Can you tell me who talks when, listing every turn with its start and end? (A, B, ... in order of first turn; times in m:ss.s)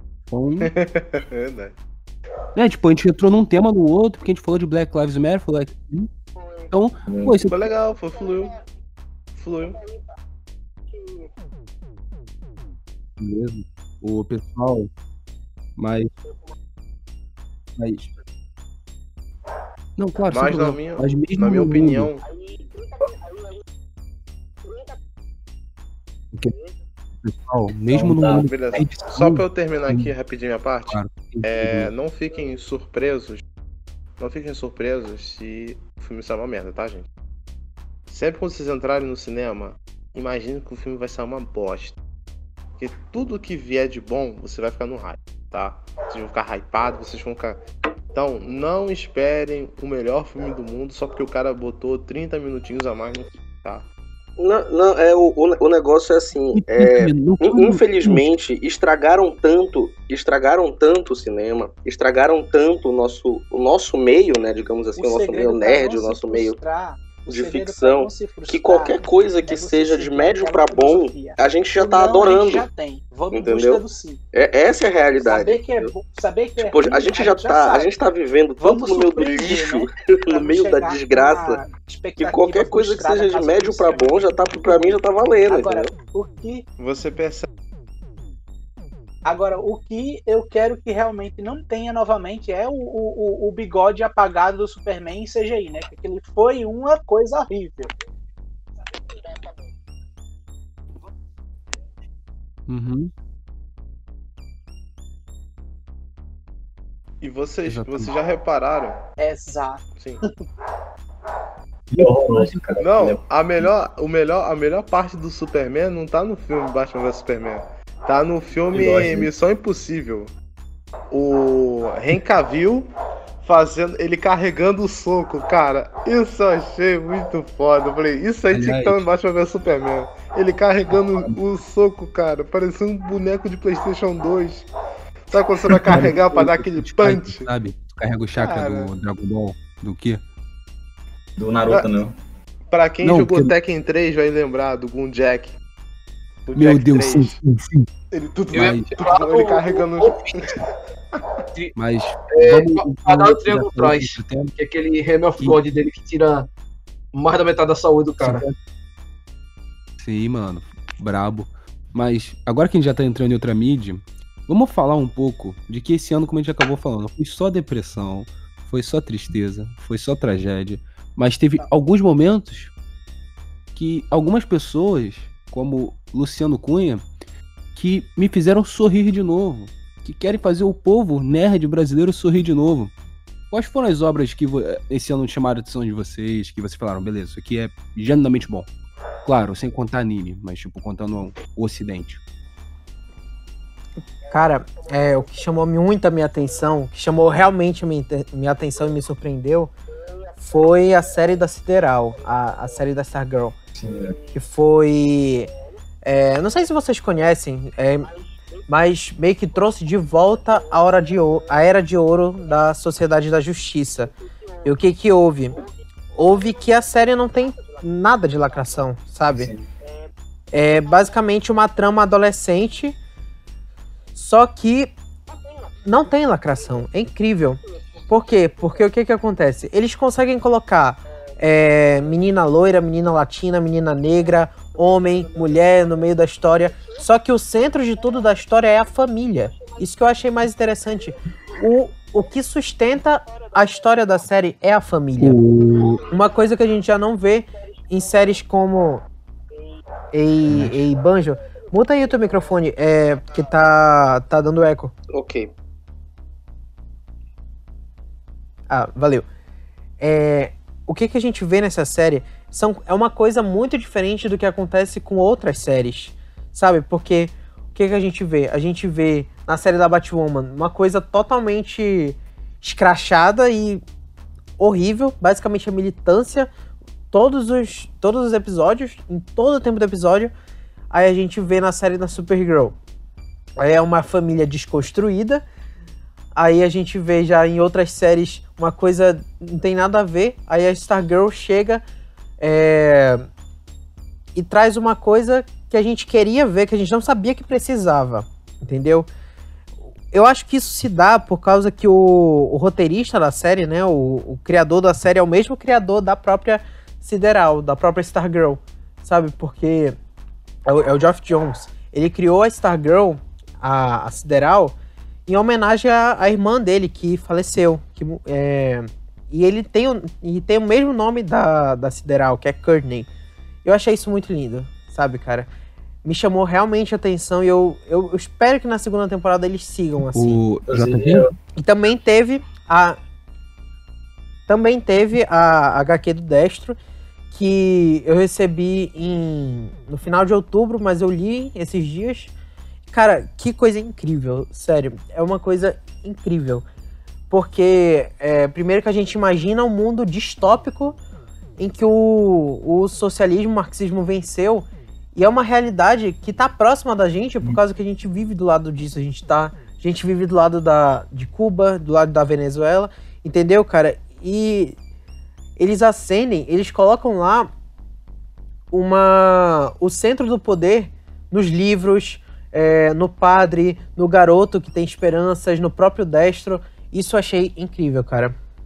0:00.3-0:00.7 A
0:00.6-0:01.7 B
0:02.5-0:06.1 A
0:06.7-0:07.7 A
0:07.1-0:07.4 C
0:07.5-0:08.5 B
0:09.3-0:09.8 B
0:13.2-0:14.9 A
0:15.8-0:16.1 A
0:17.8-0:18.1 A
0:20.0-0:22.1 A
0:20.3-0:22.2 B
0:27.2-0:30.1 A
0:27.9-0:28.4 C
0:28.3-0:33.4 B
0:30.9-0:31.9 A
0:34.2-0:37.1 B
0:38.1-0:42.0 B
0:42.8-0:47.6 B
0:48.1-0:53.8 B
0:54.4-1:06.6 D
0:56.5-0:58.2 A
1:05.0-1:14.2 E
1:07.2-1:12.7 D
1:13.3-1:15.9 D
1:15.2-1:17.9 E
1:16.6-1:21.6 D
1:18.6-1:26.6 E
1:22.2-1:25.9 D
1:26.8-1:27.5 B
1:29.2-1:37.9 E
1:42.7-1:43.1 A
1:47.2-1:49.0 B
1:47.7-1:48.1 A
1:49.2-1:49.8 E
1:50.0-1:50.2 B
1:51.9-1:53.7 C
1:52.3-1:52.6 A
1:52.8-2:00.3 B
1:58.7-1:59.3 C
2:01.1-2:02.9 B
2:03.4-2:14.6 B
2:08.5-2:09.0 A
2:15.3-2:17.5 B
2:15.9-2:20.2 A
2:18.4-2:18.9 B
2:21.4-2:22.1 C
2:22.7-2:25.5 B
2:23.0-2:23.5 A
2:26.4-2:27.4 B
2:26.5-2:27.9 A
2:28.1-2:31.2 B
2:28.5-2:30.4 F
2:28.5-2:28.9 A
2:31.8-2:34.5 A
2:32.3-2:36.5 F
2:37.1-2:38.4 F
2:38.2-2:38.5 A
2:40.0-2:52.7 A
2:53.7-2:57.0 A
2:57.7-3:02.9 A
3:03.5-3:08.7 A
3:09.2-3:12.2 A
3:14.3-3:19.7 G
3:20.4-3:23.5 G
3:23.8-3:24.2 C
3:24.3-3:25.5 G
3:26.0-3:28.1 G
3:28.7-3:34.1 G
3:34.6-3:35.6 G
3:36.1-3:39.5 G
3:39.3-3:39.6 C
3:40.5-3:43.0 G
3:44.1-3:44.9 G
3:45.8-4:05.4 G
4:05.2-4:06.0 A
4:06.1-4:09.0 G
4:10.1-4:14.9 G
4:15.1-4:15.5 D
4:18.7-4:19.2 G
4:20.0-4:33.8 G
4:34.6-4:36.5 G
4:37.1-4:40.3 G
4:40.9-4:42.8 G
4:43.6-4:45.4 G
4:46.3-4:51.8 G
4:52.4-4:53.3 G
4:54.3-4:59.1 G
5:00.1-5:10.0 G
5:10.6-5:14.7 G
5:15.3-5:23.1 G
5:23.6-5:25.5 G
5:26.0-5:30.4 G
5:30.1-5:31.2 A
5:30.7-5:31.3 C
5:31.6-5:33.0 G
5:34.5-5:36.8 G
5:37.3-5:42.3 G
5:42.9-5:46.6 G
5:47.3-5:51.0 G
5:51.6-6:04.8 G
6:05.6-6:07.5 G
6:08.7-6:18.4 G